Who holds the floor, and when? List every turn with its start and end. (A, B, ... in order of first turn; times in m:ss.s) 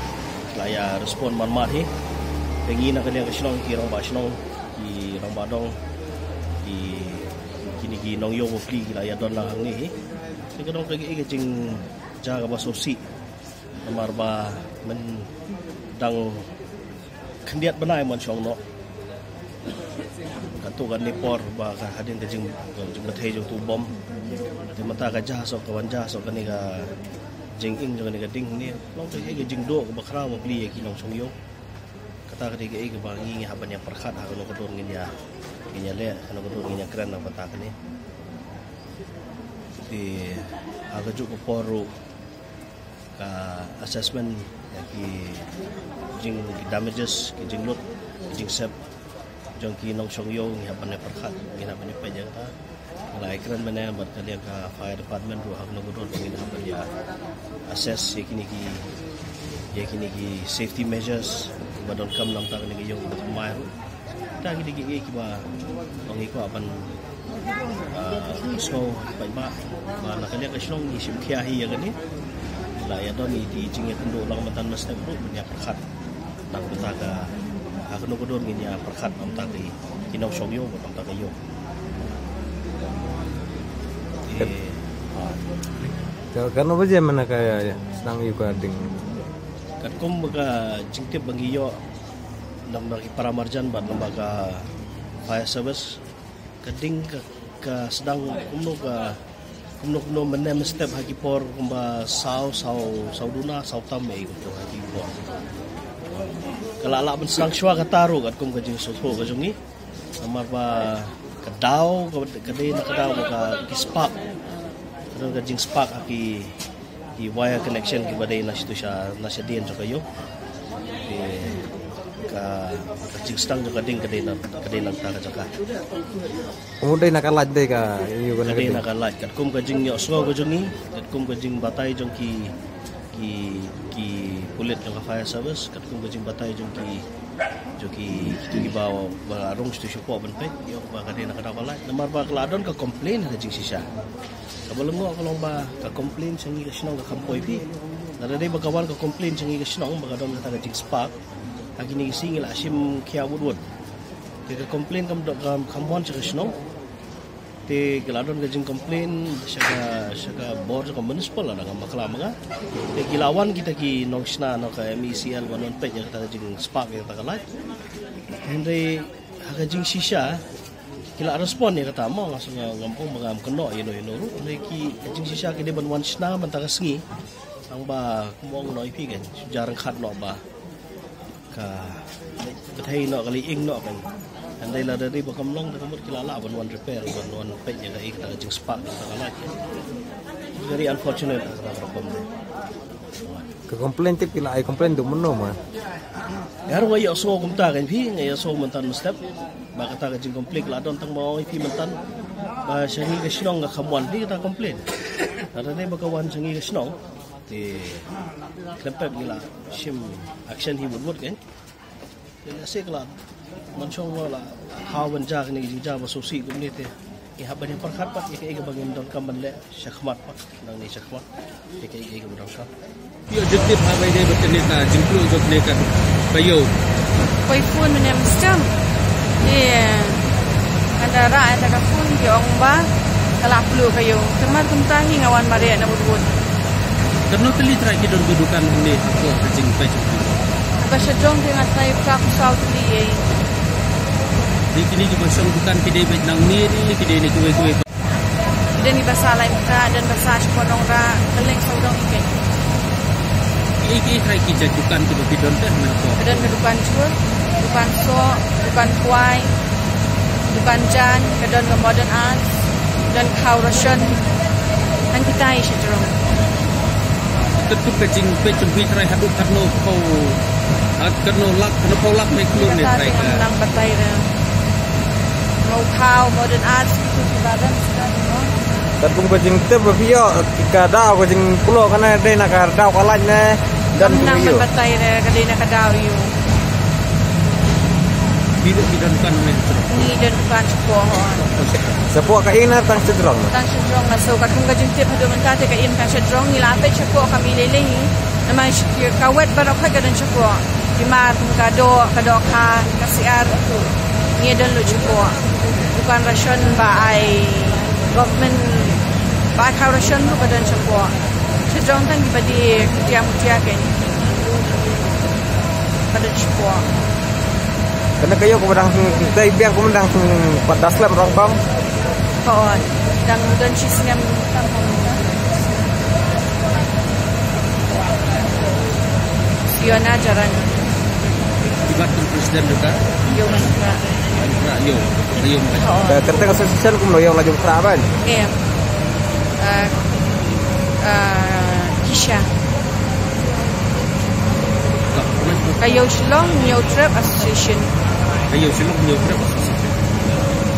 0:00.5-0:01.9 A
0:02.6-0:05.8 A
0:06.6-0:09.9 A
0:10.5-0:13.1 A
0:13.8-0:15.3 A
0:15.9-0:16.5 A
0:17.4-0:18.6 A
0:20.6-0:24.0 A
0:24.7-0:26.9 A
0:27.6-0:31.4 A
0:32.3-0:35.2 A
0:35.7-0:37.8 A
0:39.8-0:41.9 A
0:43.2-0:45.5 A
0:46.2-0:48.8 A
0:49.6-0:52.5 A
0:53.1-0:56.9 A
0:57.7-0:58.9 A
0:59.7-1:03.7 A
1:04.4-1:05.5 A
1:06.1-1:07.0 A
1:07.9-1:12.0 A
1:12.8-1:15.8 A
1:16.5-1:17.4 A
1:17.9-1:21.4 A
1:24.2-1:24.8 A
1:26.3-1:29.0 B
1:29.8-1:31.8 A
1:32.6-1:34.7 A
1:35.2-1:36.0 A
1:36.6-1:39.2 A
1:39.8-1:45.2 A
1:46.8-1:49.6 A
1:50.2-1:54.2 A
1:55.1-1:56.6 A
1:57.2-2:00.0 A
2:01.0-2:05.5 A
2:06.8-2:08.8 B
2:08.4-2:12.5 A
2:13.1-2:17.0 A
2:17.8-2:23.9 A
2:24.7-2:27.7 A
2:28.2-2:31.2 A
2:31.8-2:33.6 A
2:34.5-2:36.5 A
2:37.7-2:42.4 A
2:42.9-2:47.5 A
2:48.4-2:50.4 A
2:51.2-2:57.0 A
2:57.7-3:00.4 A
3:01.5-3:04.1 A
3:04.6-3:09.5 A
3:10.5-3:12.3 A
3:13.7-3:15.6 B
3:16.7-3:19.2 A
3:19.7-3:22.0 A
3:22.6-3:24.9 A
3:25.5-3:28.1 A
3:28.8-3:31.4 A
3:32.4-3:33.2 A
3:33.7-3:41.3 A
3:41.8-3:42.7 A
3:43.3-3:46.7 C
3:47.4-3:48.7 D
3:49.4-3:50.2 D
3:51.0-3:56.4 D
3:57.3-4:00.4 C
4:00.8-4:03.3 D
4:04.7-4:07.8 C
4:08.8-4:12.4 D
4:13.8-4:16.6 C
4:16.2-4:19.5 D
4:20.5-4:22.5 D
4:23.1-4:24.2 D
4:25.1-4:26.1 D
4:27.6-4:30.4 C
4:31.0-4:33.5 C
4:32.5-4:34.3 D
4:35.6-4:38.5 D
4:39.0-4:44.6 B
4:44.0-4:46.3 D
4:48.6-4:50.2 C
4:49.9-4:51.5 D
4:51.4-4:52.0 C
4:52.1-4:53.5 B
4:53.5-5:03.6 D
5:04.4-5:05.4 D
5:05.9-5:09.0 D
5:09.5-5:11.1 D
5:11.6-5:14.2 D
5:16.1-5:16.9 D
5:18.2-5:21.6 B
5:22.4-5:25.5 D
5:29.7-5:30.8 D
5:31.9-5:33.2 C
5:33.2-5:34.0 D
5:34.3-5:35.9 C
5:35.8-5:36.5 D
5:36.0-5:38.1 B
5:38.2-5:38.6 D
5:39.6-5:40.0 D
5:41.0-5:42.5 D
5:45.1-5:46.1 C
5:45.8-5:47.9 D
5:48.5-5:50.1 C